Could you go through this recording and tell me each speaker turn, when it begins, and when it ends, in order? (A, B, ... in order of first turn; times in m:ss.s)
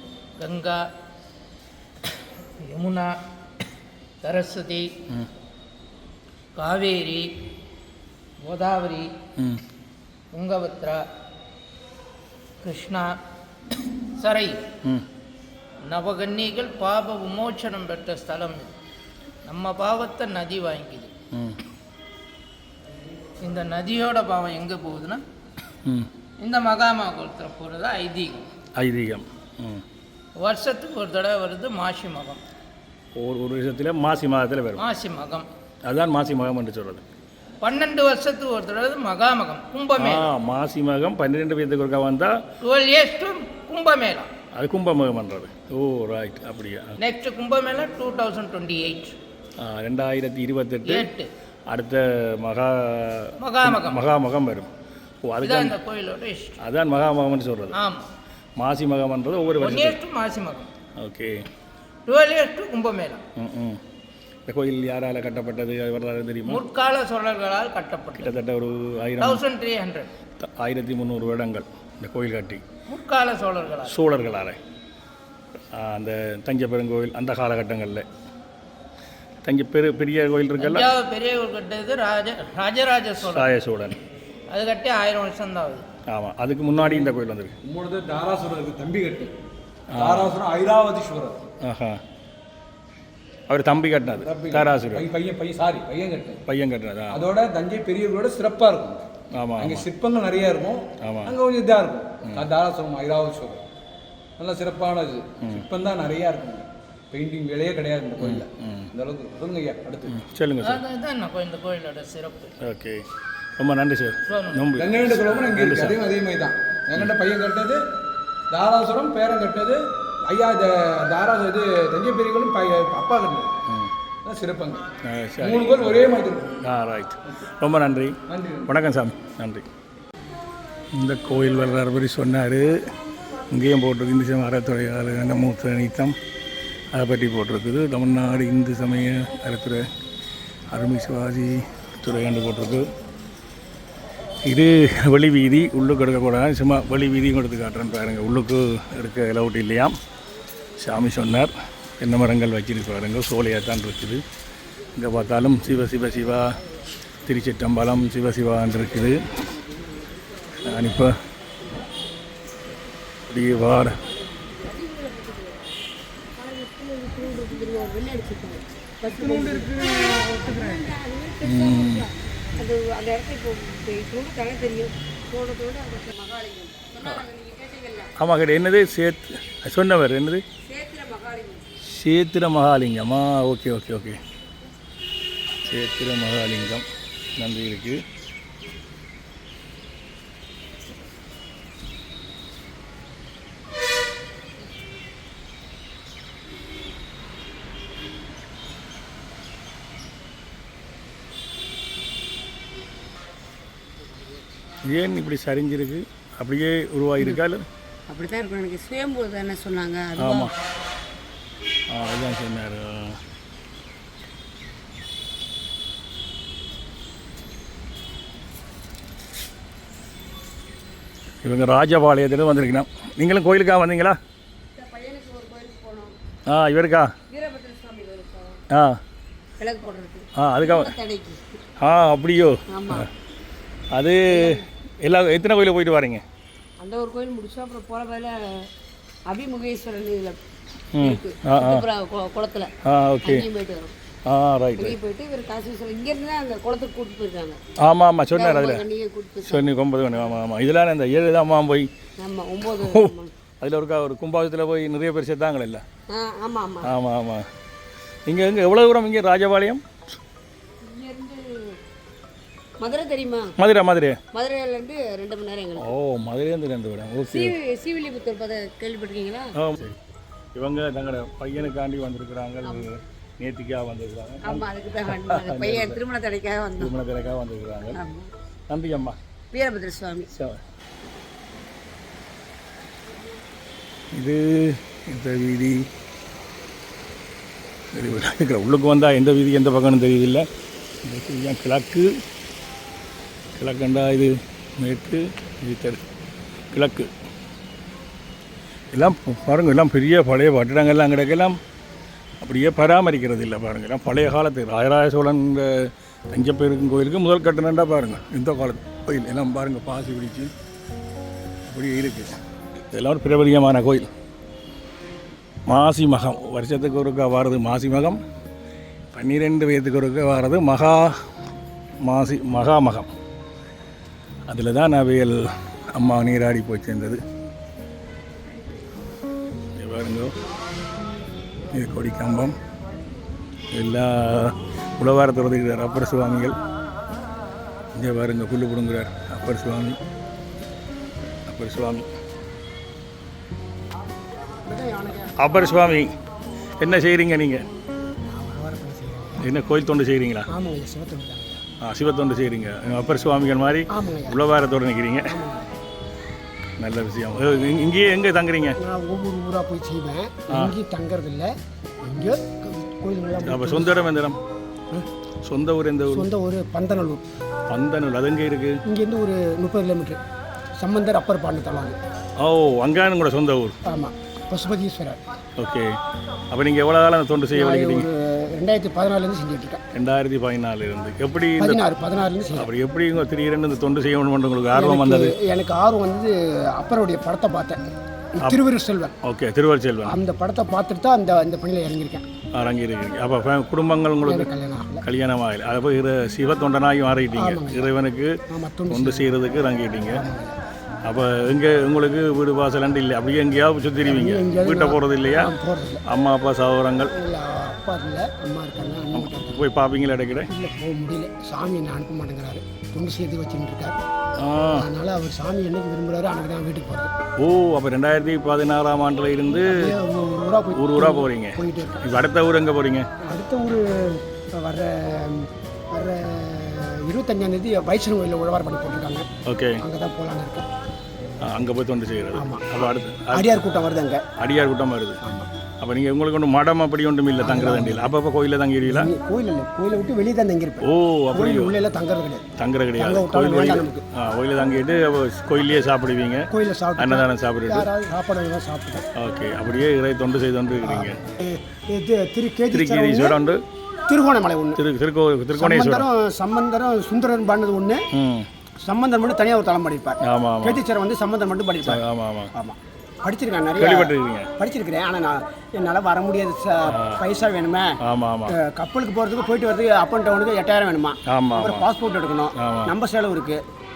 0:00.4-0:00.8 A
0:02.6-0:03.1 A
0:04.2-0:04.9 A
0:06.6-0:07.3 A
0:08.4-0:09.1 A
0:10.3-0:11.0 A
0:12.6-0:13.2 A
0:14.2-0:14.6 A
0:15.9-0:18.7 A
0:19.4-0:21.1 A
0:21.3-0:21.6 B
0:23.4-0:25.2 A
0:26.4-0:28.5 A
0:28.8-0:29.8 B
0:30.4-0:32.4 A
0:33.2-0:34.8 B
0:34.8-0:35.5 A
0:35.8-0:37.0 B
0:37.6-0:40.3 A
0:40.0-0:42.4 B
0:42.6-0:44.3 A
0:44.5-0:47.0 B
0:47.0-0:49.2 A
0:49.6-0:51.1 B
0:50.9-0:51.3 A
0:51.7-0:54.7 B
0:53.4-0:54.1 A
0:55.2-0:55.8 B
0:55.4-0:56.6 A
0:56.6-0:57.8 B
0:57.7-0:58.0 A
0:58.6-1:00.0 B
0:59.6-1:00.7 A
1:01.0-1:01.4 B
1:02.1-1:03.2 A
1:03.4-1:03.8 B
1:04.5-1:06.6 B
1:06.5-1:08.4 A
1:08.2-1:09.4 B
1:09.2-1:10.1 A
1:10.4-1:12.6 B
1:12.9-1:14.0 A
1:13.9-1:14.6 B
1:15.7-1:18.0 B
1:19.4-1:20.9 B
1:20.6-1:23.5 A
1:23.2-1:24.0 B
1:24.5-1:25.8 A
1:26.1-1:27.5 B
1:26.8-1:27.1 C
1:27.6-1:29.3 C
1:29.9-1:30.4 B
1:29.9-1:31.5 C
1:31.6-1:32.0 B
1:33.5-1:35.1 B
1:34.1-1:36.4 C
1:36.5-1:37.3 B
1:37.1-1:43.6 C
1:39.3-1:39.9 B
1:41.0-1:41.4 B
1:44.4-1:50.2 C
1:48.2-1:48.9 B
1:50.1-1:50.8 B
1:50.6-1:52.5 A
1:52.6-1:53.0 B
1:53.6-1:56.0 B
1:54.3-1:54.7 A
1:54.8-1:57.8 C
1:58.5-2:03.5 C
2:04.2-2:06.6 C
2:05.0-2:08.2 B
2:08.3-2:08.7 C
2:08.7-2:09.7 B
2:10.9-2:12.8 B
2:13.5-2:16.2 B
2:16.9-2:19.8 B
2:20.7-2:22.9 B
2:24.5-2:30.0 B
2:30.8-2:34.2 B
2:35.0-2:36.5 B
2:37.2-2:39.2 B
2:39.7-2:40.8 D
2:40.6-2:41.1 B
2:43.3-2:44.0 B
2:44.4-2:45.8 D
2:46.4-2:49.8 D
2:49.1-2:50.8 C
2:50.3-2:58.1 D
2:51.4-2:52.1 B
2:58.2-3:00.4 B
3:00.6-3:01.6 D
3:01.8-3:04.2 B
3:05.6-3:06.8 B
3:07.4-3:08.0 B
3:24.1-3:24.4 D
3:24.9-3:27.6 B
3:28.1-3:30.5 D
3:30.2-3:30.5 B
3:31.9-3:33.2 B
3:41.4-3:44.2 B
3:44.8-3:46.2 D
3:46.5-3:47.1 B
3:47.3-3:48.6 D
3:48.7-3:49.0 B
3:49.6-3:51.4 D
3:50.4-3:50.9 B
3:51.8-3:53.1 B
3:52.7-3:53.1 D
3:53.9-3:56.2 B
3:54.3-3:54.7 D
3:56.8-3:58.7 D
3:59.3-4:00.4 D
4:00.9-4:01.9 B
4:01.0-4:02.7 D
4:02.8-4:03.5 B
4:03.2-4:03.9 D
4:04.3-4:05.0 B
4:04.8-4:07.6 D
4:07.8-4:08.8 B
4:08.3-4:09.7 D
4:09.4-4:11.9 B
4:12.2-4:13.3 D
4:12.6-4:15.8 B
4:16.1-4:16.9 D
4:16.8-4:17.4 B
4:18.3-4:19.8 B
4:20.8-4:21.8 D
4:22.8-4:23.6 D
4:23.6-4:24.2 B
4:24.3-4:25.9 D
4:25.8-4:27.6 B
4:27.3-4:29.5 D
4:29.6-4:30.0 B
4:30.6-4:36.0 B
4:34.4-4:36.9 D
4:36.8-4:38.0 B
4:37.9-4:38.3 D
4:38.7-4:39.2 B
4:39.5-4:40.3 D
4:40.3-4:40.6 B
4:44.1-4:45.9 B
4:47.9-4:50.5 B
4:51.0-4:52.1 B
4:53.6-4:56.0 B
4:56.7-4:57.1 B
4:58.9-5:01.6 B
5:02.4-5:10.5 B
5:11.7-5:12.3 B
5:12.9-5:14.1 B
5:15.7-5:18.2 B
5:19.1-5:21.1 B
5:22.0-5:23.1 B
5:24.5-5:27.2 B
5:29.8-5:30.3 B
5:31.7-5:32.5 B
5:33.7-5:36.6 B
5:38.0-5:40.0 B
5:41.5-5:42.1 B
5:44.6-5:45.5 E
5:45.4-5:46.1 B
5:46.8-5:47.6 B
5:48.3-5:49.5 E
5:49.4-5:50.5 B
5:50.5-5:51.6 E
5:51.8-5:55.3 B
5:53.9-5:54.4 E
5:55.3-5:55.7 E
5:56.8-5:58.8 B
5:58.8-6:04.0 E
6:03.4-6:04.4 B
6:05.4-6:06.3 B
6:06.1-6:07.2 E
6:07.7-6:08.8 B
6:08.9-6:10.2 E
6:10.8-6:12.0 E
6:12.4-6:13.8 B
6:13.9-6:15.2 E
6:15.6-6:16.0 B
6:16.5-6:18.1 B
6:17.5-6:19.8 E
6:20.0-6:21.8 B
6:21.6-6:22.7 E
6:22.6-6:25.3 B
6:24.7-6:29.2 E
6:29.2-6:30.2 B
6:30.1-6:32.3 E
6:32.5-6:34.5 B
6:34.2-6:35.0 E
6:35.0-6:38.3 B
6:37.4-6:37.9 E
6:38.5-6:39.3 E
6:38.9-6:40.2 B
6:40.1-6:40.6 E
6:41.1-6:45.5 B
6:44.0-6:46.0 E
6:46.1-6:47.1 B
6:47.1-6:49.6 E
6:49.1-6:50.5 B
6:50.5-6:54.0 E
6:54.4-6:54.9 B
6:54.7-6:57.1 E
6:57.4-7:00.0 B
6:59.5-7:02.1 E
7:00.8-7:03.1 B
7:03.2-7:09.3 E
7:09.5-7:09.8 B
7:09.8-7:10.7 E
7:11.5-7:13.6 B
7:12.3-7:14.2 E
7:14.4-7:15.2 B
7:15.2-7:15.5 E
7:15.8-7:19.1 B
7:17.4-7:18.2 E
7:18.8-7:22.5 E
7:20.8-7:21.8 B
7:22.6-7:27.9 B
7:23.0-7:24.0 E
7:26.5-7:29.0 E
7:29.2-7:31.2 B
7:30.8-7:33.4 E
7:32.7-7:33.6 B
7:34.1-7:34.8 E
7:34.8-7:36.1 B
7:35.5-7:38.0 E
7:38.1-7:38.5 B
7:38.8-7:42.0 E
7:40.2-7:40.8 B
7:41.8-7:42.5 B
7:42.6-7:48.0 E
7:43.8-7:44.5 B
7:46.9-7:47.2 B
7:48.0-7:48.6 B
7:48.5-7:53.6 E
7:51.3-7:51.8 B
7:52.6-7:52.9 B